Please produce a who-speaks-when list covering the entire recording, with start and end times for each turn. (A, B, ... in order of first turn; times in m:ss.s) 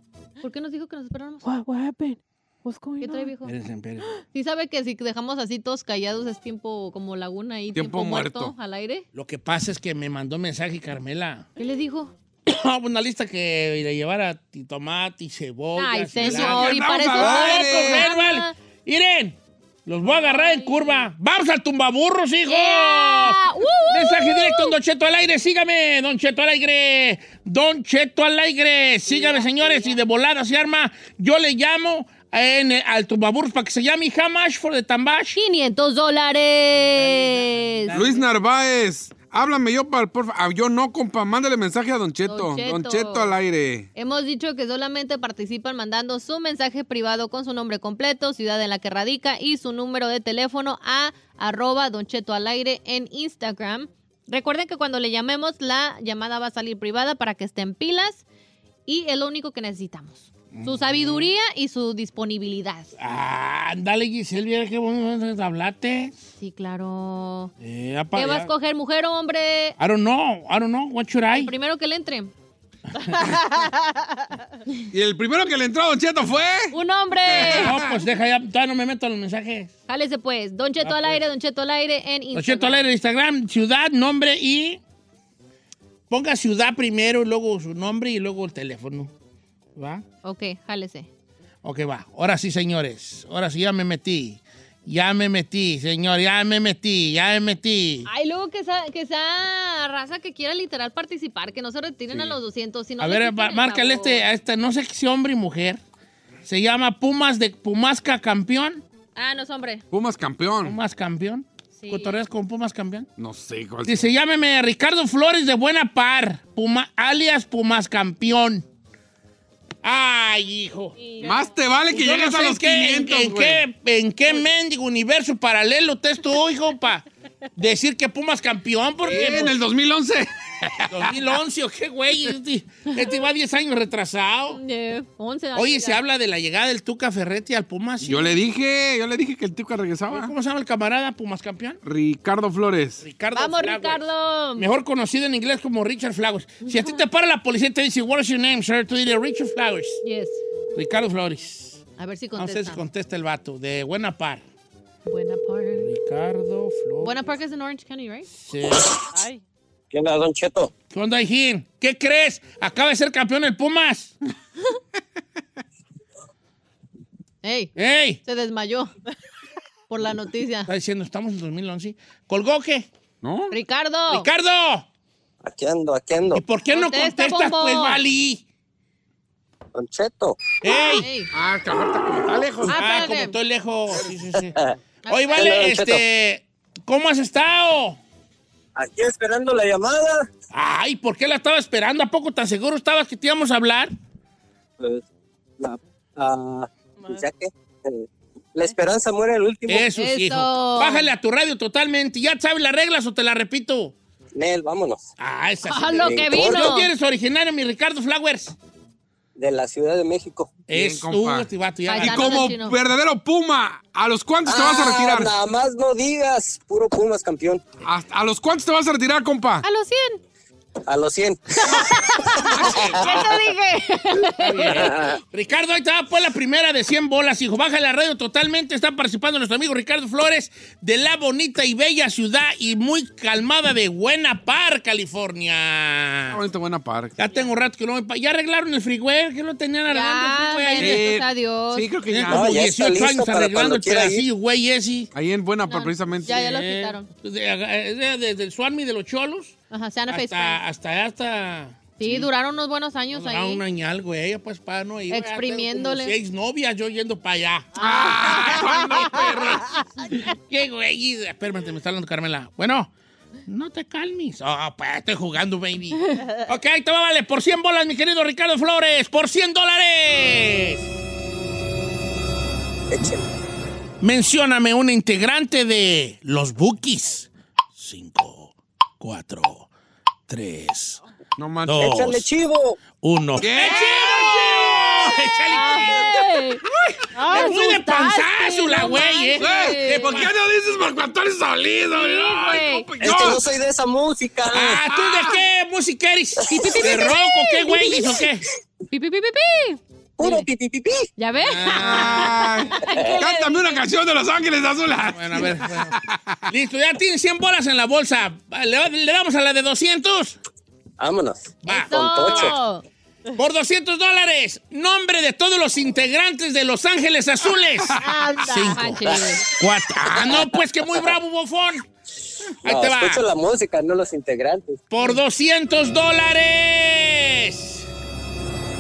0:00.4-0:01.5 A
0:01.4-0:03.3 B
0:03.0-0:03.5 A
0:03.4-0:04.1 C
0:04.3-0:09.1 A
0:07.7-0:08.6 D
0:09.1-0:11.5 C
0:11.6-0:12.1 A
0:12.5-0:35.4 C
0:15.8-0:18.5 A
0:16.2-0:18.1 D
0:20.0-0:21.0 A
0:22.5-0:24.8 A
0:29.1-0:30.0 A
0:35.4-0:38.0 A
0:37.0-0:38.2 C
0:37.9-0:43.9 D
0:42.3-0:43.3 A
0:44.0-0:58.2 A
0:58.9-1:02.9 A
1:00.5-1:01.3 C
1:03.0-1:06.1 C
1:06.4-1:07.5 A
1:07.6-1:08.5 C
1:08.2-1:09.8 A
1:09.8-1:11.5 C
1:11.3-1:12.3 A
1:13.4-1:13.7 B
1:14.9-1:18.0 D
1:16.7-1:17.8 A
1:17.4-1:19.7 C
1:19.9-1:22.8 A
1:20.8-1:21.2 C
1:22.3-1:24.8 C
1:26.1-1:29.1 C
1:29.8-1:30.0 C
1:30.2-1:31.1 A
1:31.6-1:38.1 C
1:38.1-1:44.2 A
1:43.0-1:45.8 C
1:46.4-1:48.8 C
1:49.2-1:49.8 A
1:49.9-1:50.8 D
1:50.6-1:53.1 C
1:51.8-1:52.2 A
1:53.2-1:54.1 D
1:53.8-1:58.6 C
1:59.8-2:01.0 C
2:01.0-2:01.5 A
2:01.2-2:03.6 D
2:01.9-2:07.0 C
2:07.6-2:09.6 C
2:09.0-2:11.2 D
2:10.9-2:14.6 C
2:14.5-2:16.0 A
2:15.6-2:18.4 C
2:18.0-2:20.3 D
2:20.1-2:21.8 C
2:21.8-2:23.0 D
2:23.0-2:24.0 C
2:23.3-2:24.7 A
2:24.6-2:30.0 C
2:26.6-2:27.0 A
2:30.0-2:30.4 A
2:30.8-2:31.8 C
2:32.0-2:32.8 A
2:32.4-2:34.4 C
2:35.1-2:35.9 A
2:35.8-2:37.2 C
2:37.0-2:38.3 A
2:38.4-2:38.9 C
2:39.1-2:39.4 B
2:39.9-2:40.7 E
2:40.9-2:44.1 C
2:47.4-2:48.9 A
2:47.8-2:48.2 C
2:49.9-2:50.7 A
2:50.7-2:52.9 C
2:53.2-2:53.6 D
2:53.5-2:54.3 A
2:54.1-2:54.9 C
2:55.4-2:56.4 E
2:56.3-2:58.4 C
2:56.7-2:58.0 A
2:59.8-3:00.4 E
3:00.6-3:01.1 C
3:00.7-3:01.3 A
3:01.3-3:02.8 D
3:02.6-3:04.6 C
3:02.7-3:03.4 A
3:05.1-3:05.6 A
3:05.1-3:08.0 C
3:05.4-3:06.0 E
3:08.8-3:10.3 E
3:10.5-3:13.9 C
3:15.6-3:19.9 E
3:17.0-3:17.3 B
3:19.7-3:24.0 C
3:19.9-3:21.1 A
3:24.4-3:25.0 E
3:25.2-3:28.6 C
3:25.6-3:26.9 A
3:26.0-3:26.7 E
3:29.4-3:30.6 E
3:30.7-3:32.5 C
3:30.7-3:35.3 D
3:31.9-3:32.8 A
3:34.5-3:37.6 E
3:37.8-3:39.7 D
3:39.6-3:40.2 A
3:40.9-3:41.6 E
3:42.1-3:44.9 A
3:42.4-3:43.3 D
3:44.4-3:56.4 C
3:44.7-3:45.2 E
3:56.3-3:57.2 D
3:57.2-4:01.1 C
3:59.9-4:01.9 A
4:00.8-4:02.6 D
4:02.1-4:05.1 C
4:02.3-4:04.3 E
4:05.1-4:06.4 D
4:05.7-4:07.1 A
4:06.2-4:09.6 C
4:09.7-4:10.6 A
4:10.1-4:12.3 C
4:12.0-4:13.6 A
4:13.1-4:22.9 C
4:15.1-4:16.2 A
4:17.8-4:19.6 D
4:17.8-4:18.2 B
4:23.5-4:30.8 C
4:32.9-4:33.2 E
4:34.0-4:39.7 C
4:40.3-4:41.0 C
4:41.4-4:42.1 D
4:41.7-4:42.2 C
4:41.8-4:42.8 E
4:43.0-4:50.3 C
4:43.4-4:45.2 D
4:45.5-4:46.6 A
4:47.2-4:47.6 B
4:47.3-4:50.3 A
4:49.4-4:53.5 D
4:51.9-4:52.9 A
4:53.0-4:54.8 E
4:54.5-4:58.4 C
4:54.9-4:55.4 D
4:56.5-4:56.9 E
4:56.5-4:58.0 A
4:58.9-5:00.4 A
5:00.2-5:01.1 E
5:01.2-5:03.8 A
5:01.4-5:02.7 C
5:01.8-5:06.4 D
5:05.1-5:06.0 C
5:06.5-5:10.4 C
5:11.0-5:12.6 E
5:11.6-5:12.6 C
5:11.7-5:12.8 A
5:13.4-5:21.9 C
5:18.0-5:18.8 B
5:18.8-5:19.4 A
5:20.2-5:21.1 E
5:22.6-5:23.2 C
5:22.6-5:24.9 E
5:24.9-5:27.9 C